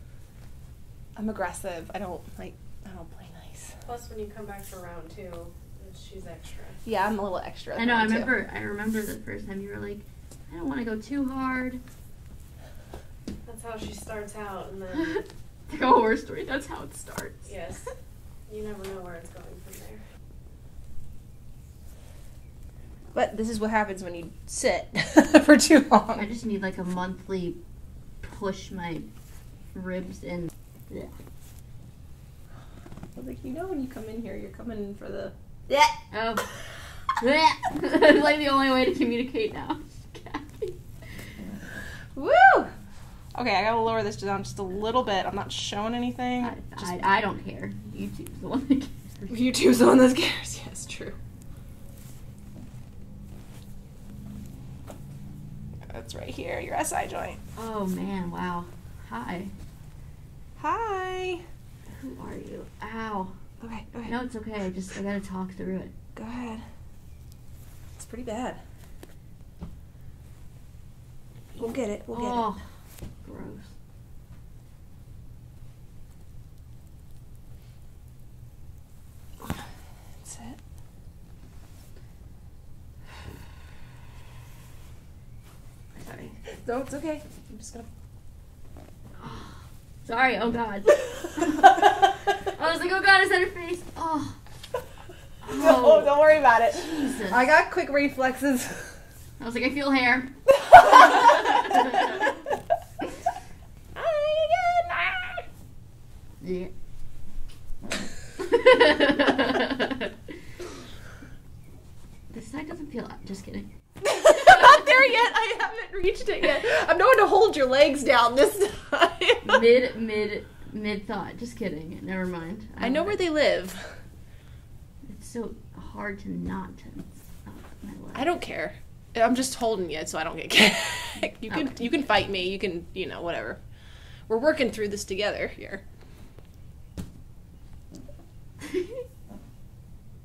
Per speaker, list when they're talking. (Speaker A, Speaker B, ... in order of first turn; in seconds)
Speaker A: 1.1-3.7, 6.8-8.4, 23.1-26.2, 33.1-36.0, 42.1-42.7, 43.4-47.0, 49.3-51.2, 55.9-57.4, 60.6-61.4, 63.6-64.2, 66.1-66.6, 68.0-68.6, 71.6-72.5, 80.2-80.6, 86.4-87.9, 95.5-99.0, 100.6-102.3, 103.9-105.5, 114.0-119.6, 122.8-123.9, 128.1-133.6, 134.3-135.8
Speaker B: 3.9-6.8, 13.4-15.2, 17.4-17.9, 18.5-20.0
Speaker C: 7.8-11.8, 14.9-17.5, 26.1-27.6, 28.2-29.1, 29.7-31.1, 36.1-36.5, 37.1-40.8, 46.4-49.3, 57.6-59.5, 61.9-63.4, 64.1-65.9, 72.1-72.7, 73.2-73.7, 86.0-86.3, 89.2-94.4, 95.4-96.2, 96.7-97.5, 99.4-102.2, 106.4-106.7, 108.4-110.1, 112.3-113.7, 114.3-114.9, 119.4-123.2, 125.1-128.4, 131.4-131.8